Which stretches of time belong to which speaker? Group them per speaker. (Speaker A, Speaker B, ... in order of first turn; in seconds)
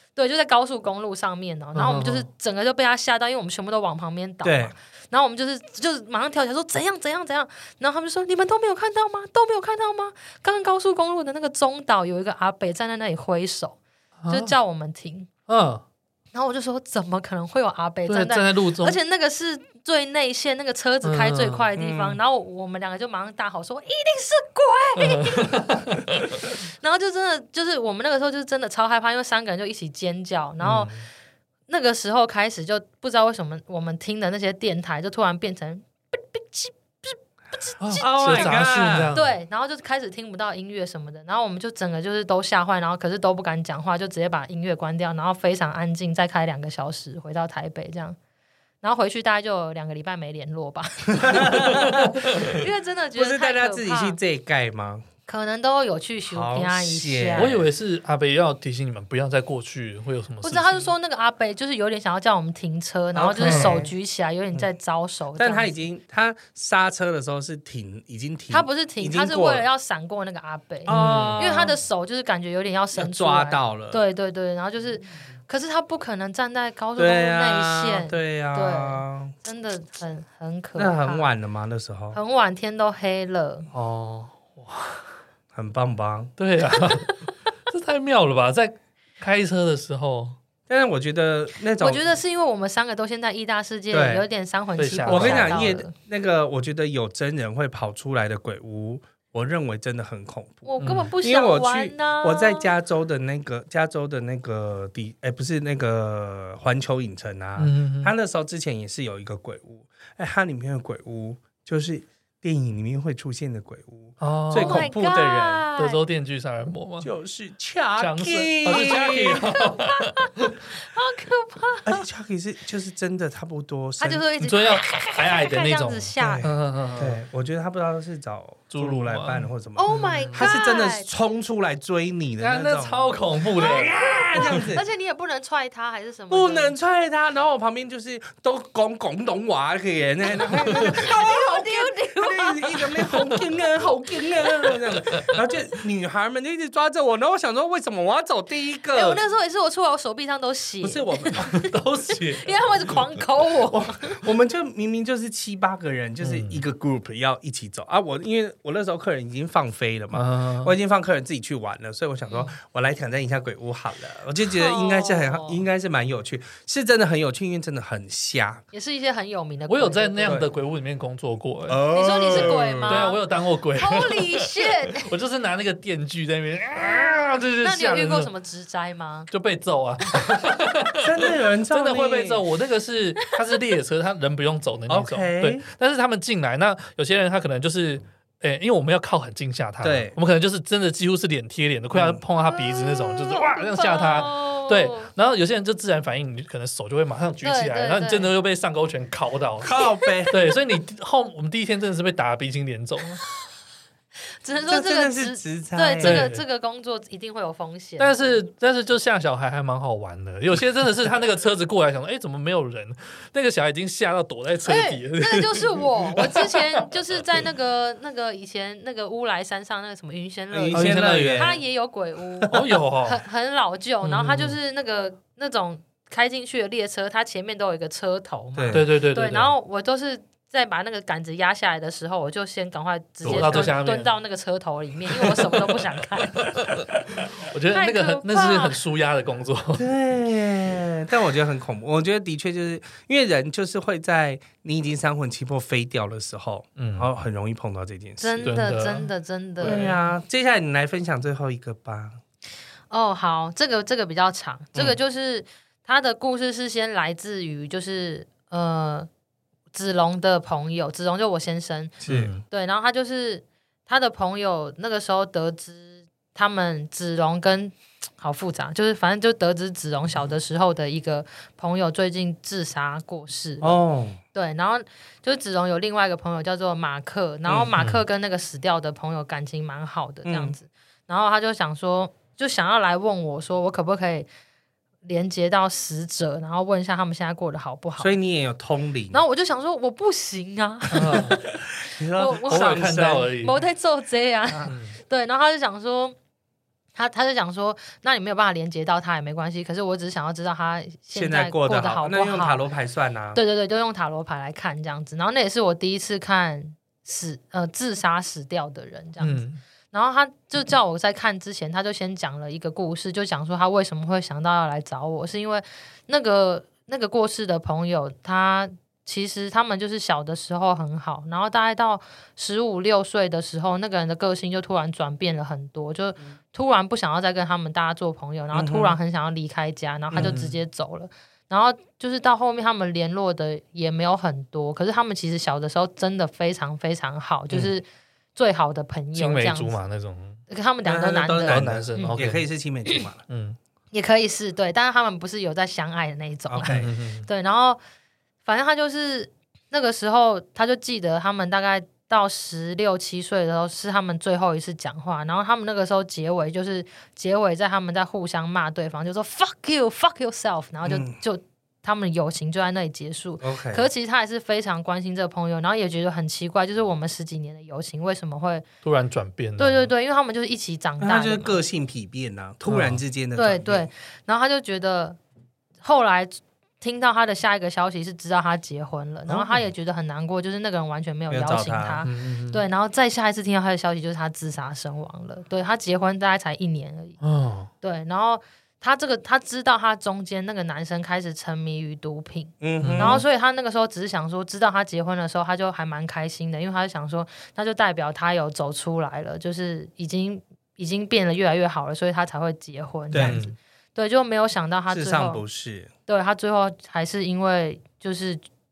Speaker A: 0.2-15.3, 16.3-25.8, 26.4-30.9, 31.7-48.2, 48.8-54.2, 55.3-57.6, 60.4-65.8, 68.5-81.3, 82.1-83.7, 86.8-87.2, 91.8-95.9, 100.7-102.7, 114.5-116.0, 118.7-122.0, 124.0-126.5, 129.8-131.1, 133.6-134.1, 134.7-136.8, 140.4-143.4, 148.9-154.2, 162.3-162.5, 164.5-165.6, 168.7-170.5, 171.9-173.2, 173.8-175.1, 177.6-179.3, 192.5-195.1, 197.4-198.3, 199.8-200.3, 204.4-208.3, 214.7-236.4, 237.7-238.8, 248.2-250.1, 252.9-259.1, 259.7-262.0, 262.5-273.8, 274.3-284.3, 285.0-288.1, 289.1-291.6, 292.1-296.2, 297.0-302.7, 303.3-339.8, 340.5-342.2, 343.9-347.8, 348.4-368.6, 369.6-371.6, 373.4-375.2, 375.8-387.2, 387.8-405.4, 406.1-408.4
Speaker B: 1.8-2.3, 14.2-14.5, 15.5-15.8, 18.1-19.0, 21.0-21.7, 25.0-26.4, 30.6-31.1, 37.8-39.3, 57.4-60.9, 63.4-63.8, 70.9-71.5, 84.4-85.0, 86.4-90.4, 94.8-95.7, 100.8-101.1, 107.6-108.1, 114.2-114.9, 115.8-117.1, 118.0-120.5, 124.4-127.2, 128.7-130.5, 132.4-134.7, 151.4-152.5, 156.2-156.6, 160.1-160.7, 169.7-178.3, 179.3-199.8, 200.3-203.2, 206.0-206.4, 208.0-216.9, 220.7-221.6, 222.5-223.2, 224.0-224.6, 228.7-229.5, 233.2-234.1, 236.3-236.9, 237.4-239.9, 246.8-247.1, 248.4-249.1, 262.1-262.4, 277.8-278.0, 290.9-291.5, 292.5-293.6, 294.7-295.0, 309.2-309.6, 330.2-330.5, 339.1-340.4, 341.5-342.4, 343.3-343.6, 346.6-347.3, 368.8-369.9, 372.7-373.0, 382.0-382.6, 387.2-387.7, 392.8-393.2, 403.2-403.6
Speaker C: 4.4-4.7, 21.8-22.2, 38.0-39.1, 51.2-52.4, 53.1-55.1, 56.3-57.6, 63.1-63.9, 65.4-69.6, 70.9-71.8, 73.0-74.0, 77.0-79.3, 80.8-82.2, 83.7-84.3, 85.5-86.3, 90.7-92.1, 93.9-94.2, 95.1-115.7, 117.0-119.5, 121.9-124.2, 126.2-134.8, 136.3-149.2, 150.8-151.5, 153.7-168.6, 170.2-170.5, 171.7-173.1, 181.0-182.4, 184.9-185.7, 189.8-190.2, 191.9-192.2, 199.6-200.4, 204.7-206.2, 220.5-221.6, 228.6-228.9, 233.3-233.7, 239.8-248.5, 249.6-252.2, 262.0-262.4, 273.6-274.2, 280.2-280.6, 288.0-289.2, 291.8-293.3, 301.1-303.4, 328.5-329.0, 330.1-330.4, 340.9-343.2, 346.5-346.9, 360.9-361.2, 363.4-363.9, 371.0-373.9, 381.3-382.0, 392.6-393.2, 403.1-403.4, 404.9-405.9